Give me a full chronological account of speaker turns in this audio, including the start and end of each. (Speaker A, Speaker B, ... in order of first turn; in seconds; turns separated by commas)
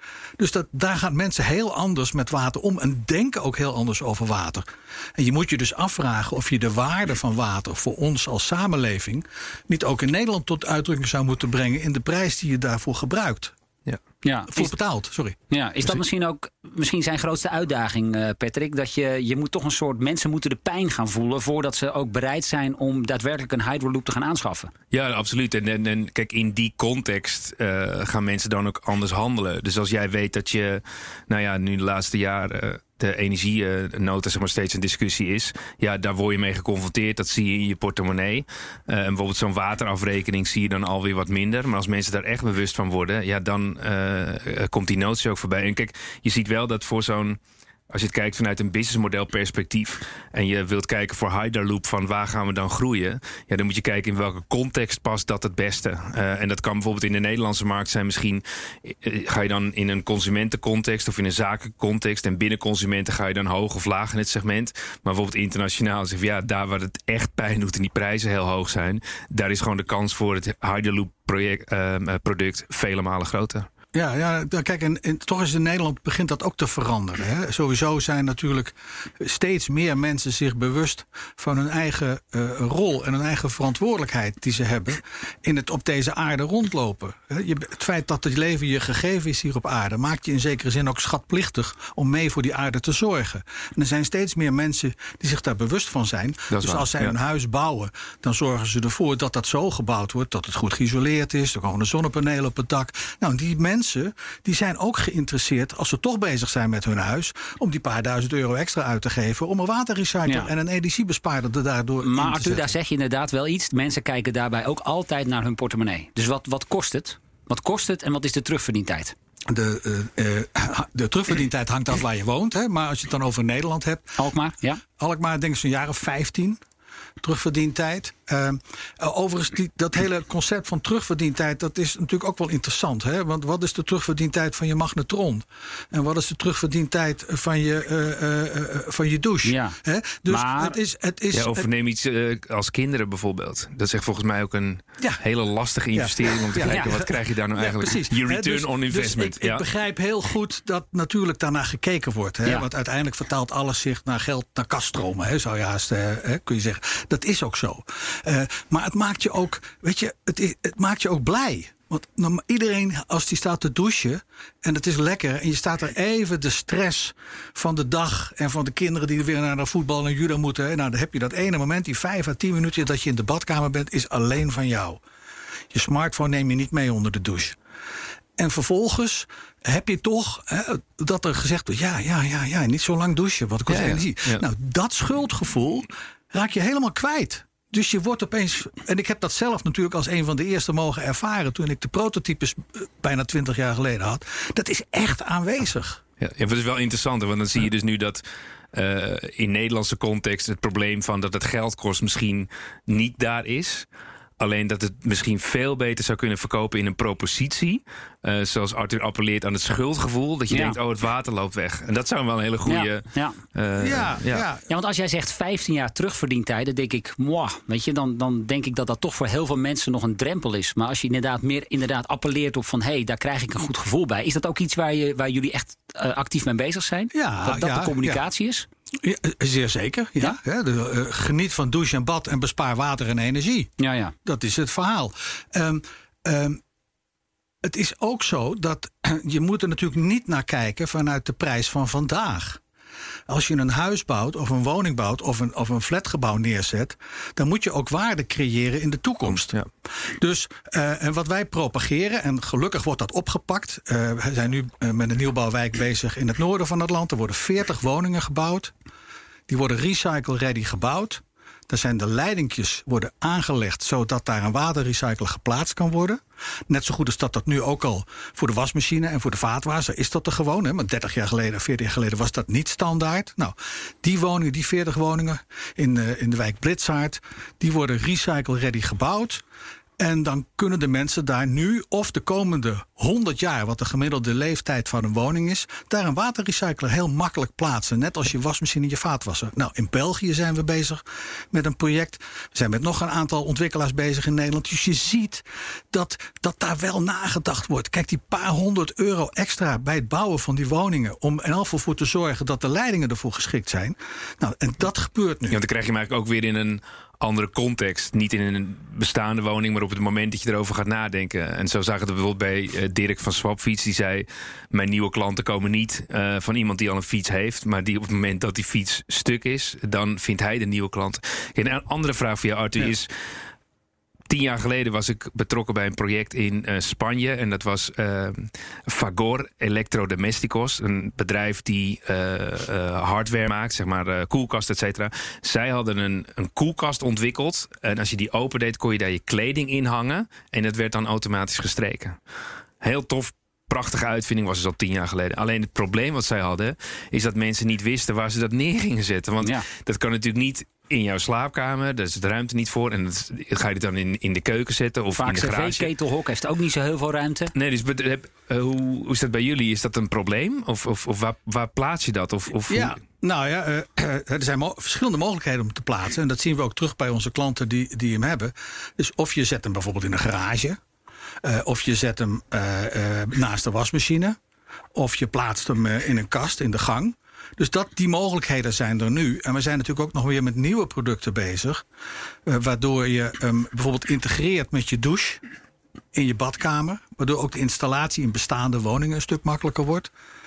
Speaker A: 0.4-13.5, Speaker B: 14.2-14.7, Speaker A: 14.5-15.4, Speaker B: 15.5-24.7, Speaker C: 24.9-47.4, Speaker C: 47.9-73.7, Speaker A: 73.9-112.8, Speaker C: 96.5-97.2, Speaker B: 110.2-110.5, Speaker B: 112.0-119.1, Speaker A: 119.5-124.2, Speaker B: 124.2-124.8, Speaker A: 125.0-126.6, Speaker A: 127.2-141.7, Speaker B: 139.4-139.8, Speaker B: 140.3-140.8, Speaker C: 141.3-149.6, Speaker A: 145.9-175.0, Speaker A: 175.7-177.6, Speaker A: 178.4-196.0, Speaker C: 183.7-184.4, Speaker C: 196.2-203.8, Speaker C: 204.4-214.4, Speaker B: 210.5-210.8, Speaker B: 212.7-213.4, Speaker A: 213.8-214.7, Speaker B: 214.7-228.7, Speaker A: 227.1-228.2, Speaker A: 229.0-233.7, Speaker B: 233.8-234.1, Speaker A: 234.2-236.6, Speaker A: 237.6-242.6, Speaker A: 243.3-258.7, Speaker A: 259.5-279.4, Speaker A: 280.0-305.6, Speaker C: 305.5-323.1, Speaker C: 324.3-342.2, Speaker C: 342.8-355.9, Speaker B: 355.1-357.5, Speaker C: 357.5-363.0, Speaker A: 362.7-370.8, Speaker A: 371.4-374.4, Speaker A: 374.9-381.8, Speaker A: 382.4-385.4, Speaker A: 386.1-390.1